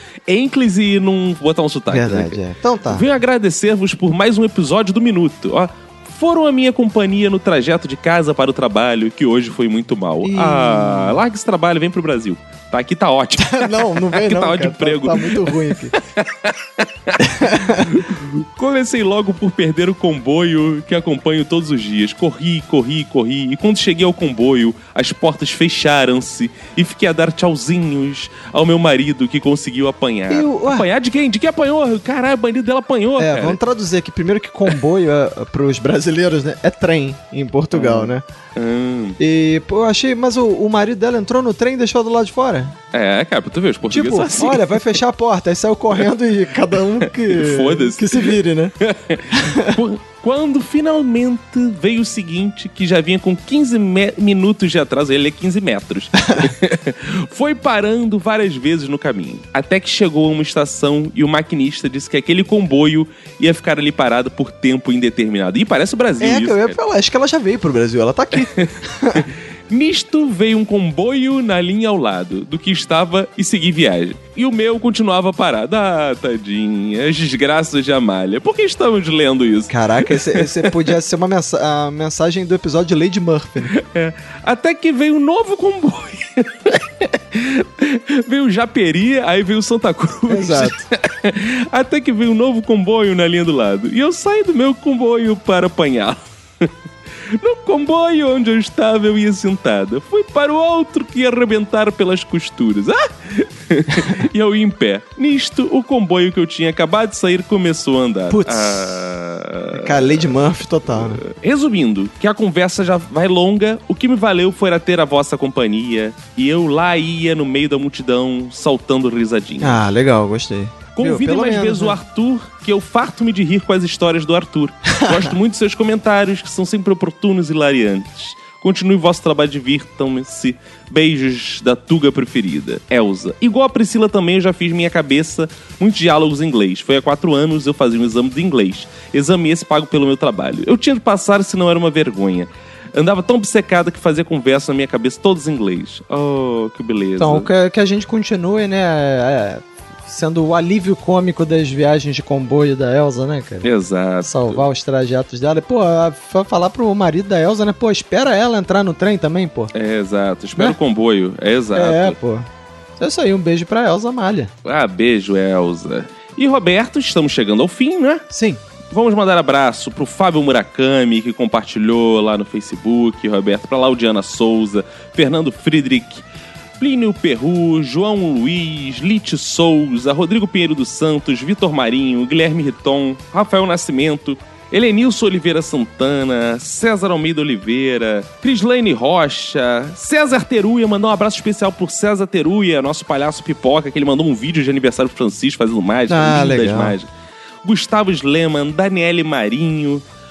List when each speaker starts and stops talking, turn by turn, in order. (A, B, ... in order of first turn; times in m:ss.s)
0:00.3-0:02.4 A
0:01.9-0:03.0 B
0:02.9-0:33.6 A
0:10.2-0:11.2 B
0:13.4-0:15.9 B
0:17.2-0:17.9 B
0:30.3-0:30.8 B
0:33.2-0:38.2 B
0:37.7-0:39.2 A
0:39.2-0:42.8 B
0:42.9-0:45.0 A
0:43.9-0:48.7 B
0:47.2-1:06.8 A
0:49.3-0:49.8 B
0:56.2-0:56.5 B
1:06.2-1:09.2 B
1:08.4-1:20.8 A
1:19.7-1:23.7 B
1:23.7-1:36.7 A
1:30.3-1:30.9 B
1:37.3-1:50.3 A
1:48.3-1:49.0 B
1:49.7-1:51.2 B
1:50.9-1:59.8 A
1:59.6-2:02.0 B
2:00.9-2:27.5 A
2:04.9-2:05.3 B
2:27.2-2:33.7 B
2:33.6-2:34.6 A
2:34.2-2:39.7 B
2:39.7-2:42.2 A
2:41.7-2:42.5 B
2:43.0-2:44.5 B
2:44.6-2:48.2 A
2:48.3-2:48.6 B
2:48.9-2:56.2 A
2:56.8-3:17.1 A
3:16.1-3:17.0 B
3:17.6-3:20.0 A